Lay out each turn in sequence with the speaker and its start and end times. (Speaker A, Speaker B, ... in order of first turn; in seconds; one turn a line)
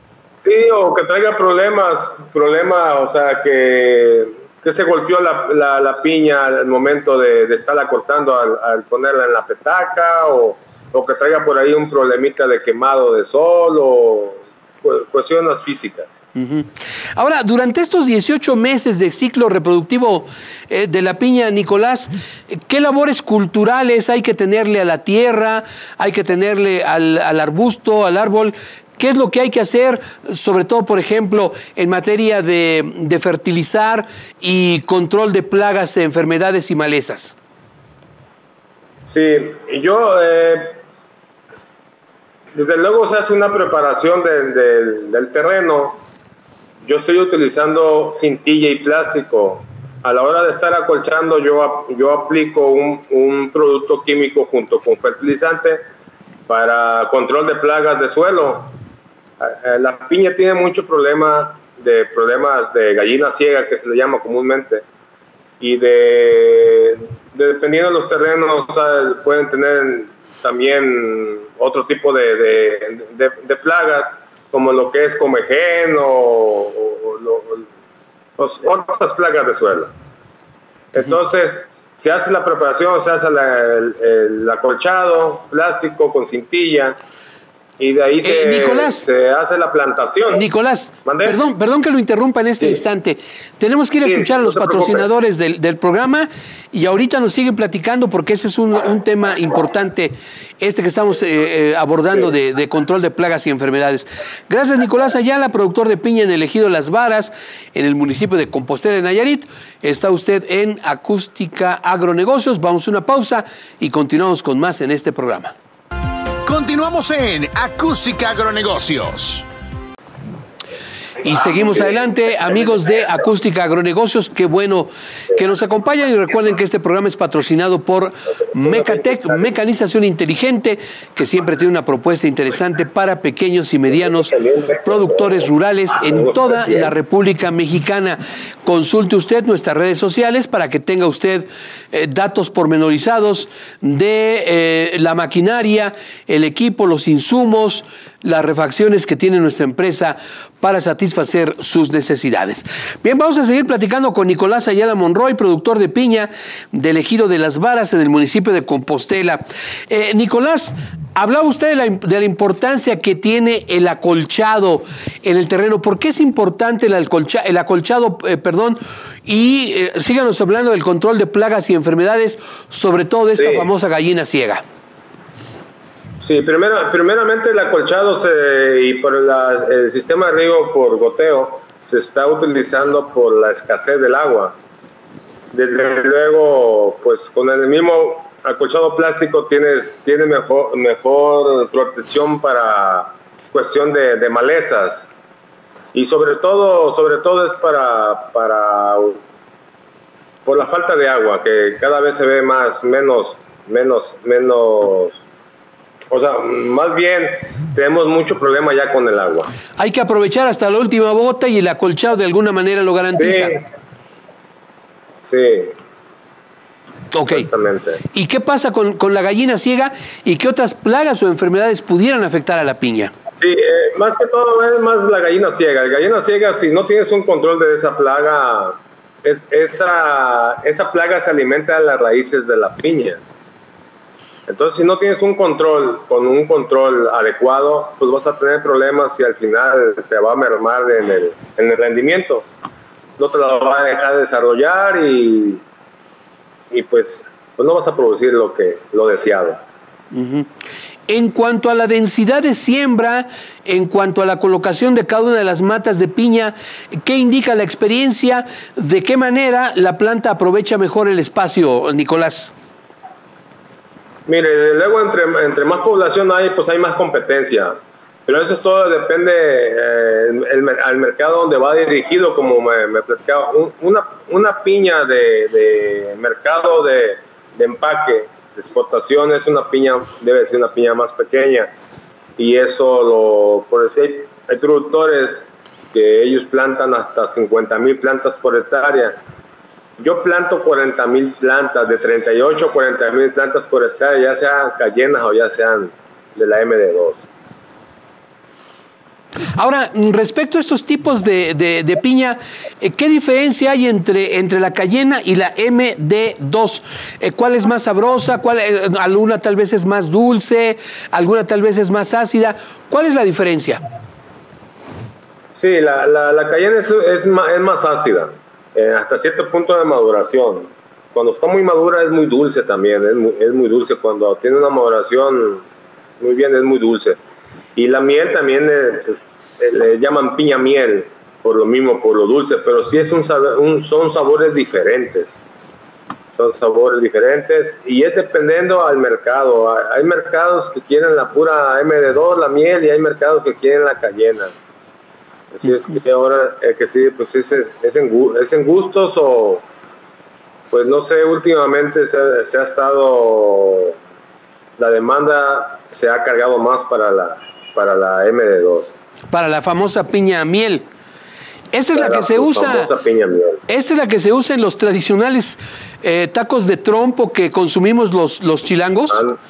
Speaker A: 0.4-16.2
Speaker B: 16.4-37.4
Speaker A: 39.1-40.8
Speaker A: 42.5-46.0
Speaker A: 46.9-55.8
Speaker A: 56.5-58.7
Speaker A: 59.4-64.8
Speaker A: 65.6-77.7
Speaker A: 78.4-79.9
Speaker A: 80.9-87.0
Speaker A: 87.8-90.5
Speaker B: 88.2-89.0
Speaker B: 90.3-115.5
Speaker A: 91.0-91.5
Speaker A: 94.0-95.1
Speaker C: 116.4-119.5
Speaker B: 121.2-174.6
Speaker A: 128.3-129.5
Speaker A: 133.9-135.5
Speaker A: 136.0-136.9
Speaker A: 173.3-173.7
Speaker A: 176.2-184.6
Speaker A: 185.5-195.1
Speaker A: 195.9-199.2
Speaker A: 200.4-205.2
Speaker A: 206.1-209.5
Speaker B: 209.8-213.6
Speaker A: 213.1-213.6
Speaker A: 215.2-215.8
Speaker B: 217.1-217.5
Speaker A: 217.2-218.0
Speaker B: 218.1-223.1
Speaker A: 223.4-233.2
Speaker A: 234.5-242.5
Speaker A: 243.2-245.6
Speaker A: 246.7-249.6
Speaker B: 250.1-250.5
Speaker B: 251.1-262.5
Speaker A: 264.3-281.7
Speaker A: 282.4-289.2
Speaker A: 290.0-297.3
Speaker B: 299.6-313.8
Speaker A: 315.6-325.6
Speaker A: 326.2-327.2
Speaker A: 327.8-335.4
Speaker A: 336.4-344.5
Speaker A: 345.5-349.6
Speaker A: 350.7-354.0
Speaker A: 354.8-358.9
Speaker B: 359.3-360.9
Speaker B: 361.7-362.9
Speaker A: 361.9-363.6
Speaker B: 363.7-369.2
Speaker A: 369.1-369.4